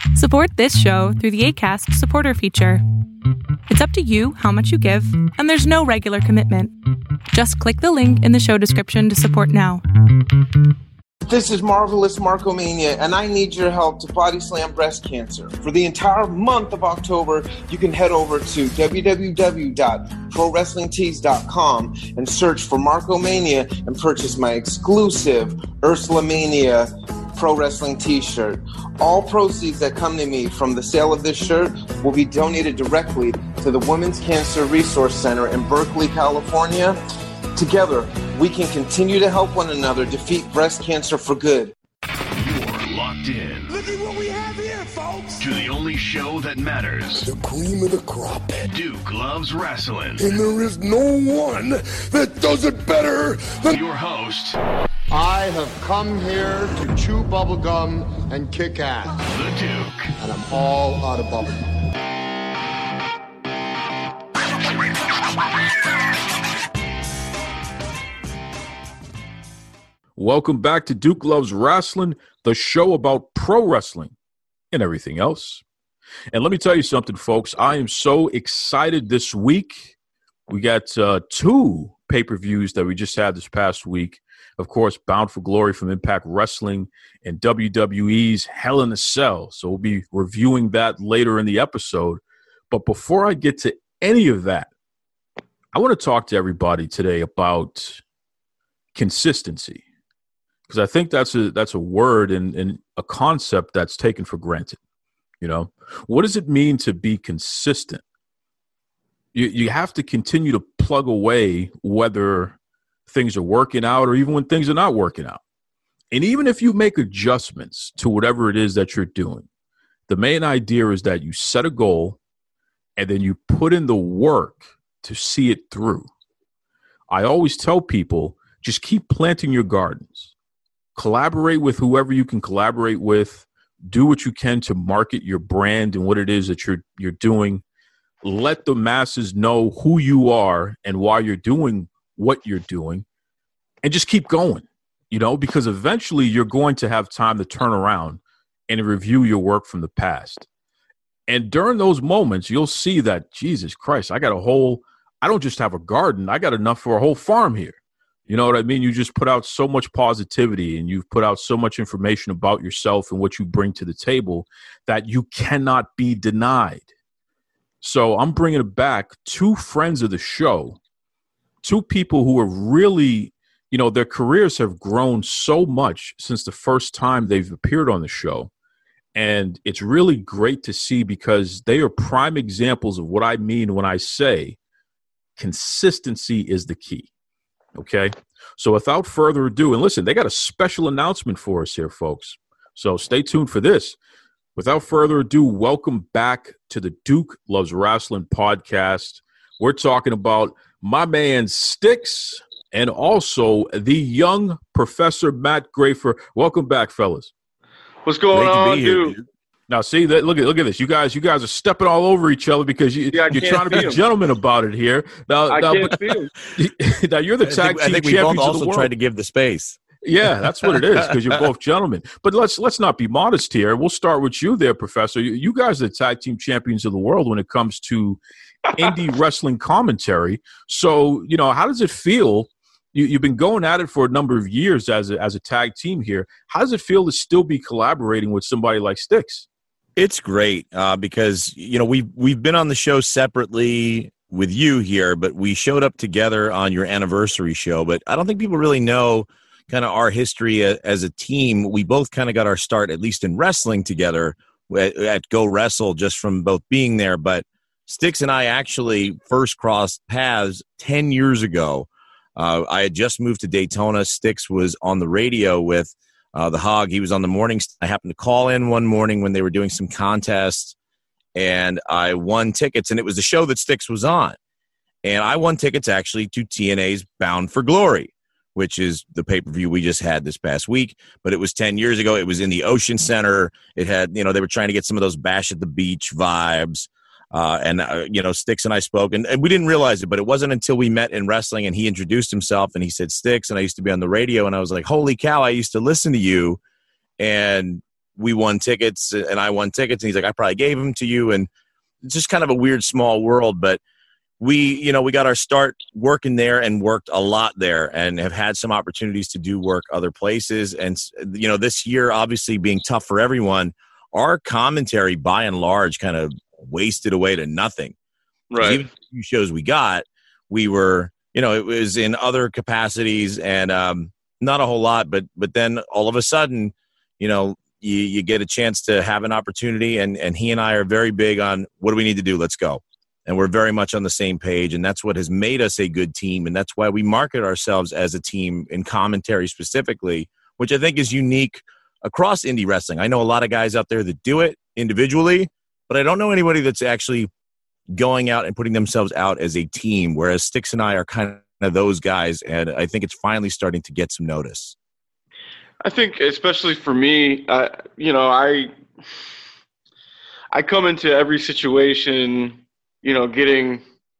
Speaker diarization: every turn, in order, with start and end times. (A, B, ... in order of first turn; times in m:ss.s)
0:00.1-0:02.8 A
0:03.7-0:06.7 A
0:07.3-0:09.8 A
0:11.2-0:37.0 B
0:37.6-0:41.7 B
0:42.4-0:43.8 C
0:43.7-0:45.5 D
0:45.4-0:47.3 C
0:47.2-0:48.7 D
0:48.6-0:50.3 C
0:50.2-0:53.7 D
0:53.7-0:54.6 C
0:55.1-0:59.2 E
0:59.3-1:00.1 C
1:00.2-1:01.7 E
1:10.2-1:14.1 F
1:14.7-1:15.6 F
1:16.3-1:19.9 F
1:20.5-1:34.7 F
1:35.7-1:38.0 F
1:38.9-1:39.8 F
1:40.7-1:44.8 F
1:45.4-1:48.0 F
1:49.3-1:52.6 F
1:53.1-1:55.4 F
1:56.1-1:59.5 F
2:00.1-2:02.2 F
2:03.0-2:06.1 F
2:07.1-2:10.3 F
2:11.0-2:17.6 F
2:18.2-2:23.0 F
2:23.8-2:30.5 F
2:31.3-2:46.8 F
2:47.8-2:50.8 F
2:51.6-2:58.5 F
2:59.1-3:04.6 F
3:05.4-3:07.1 F
3:07.7-3:14.0 F
3:14.5-3:27.3 F
3:28.0-3:29.2 G
3:28.3-3:29.2 H
3:29.7-3:36.0 F
3:33.1-3:34.0 G
3:35.5-3:36.3 G
3:36.6-3:38.9 F
3:37.4-3:39.8 H
3:40.0-3:48.2 F
3:48.7-3:59.5 F
4:00.0-4:30.7 H
4:31.4-4:34.4 H
4:35.0-4:56.6 H
4:57.2-5:01.5 H
5:02.0-5:03.8 H
5:04.4-5:17.9 H
5:18.5-5:18.9 G
5:18.6-5:47.3 H
5:48.0-5:54.7 H
5:55.8-5:58.7 G
6:00.5-6:03.8 G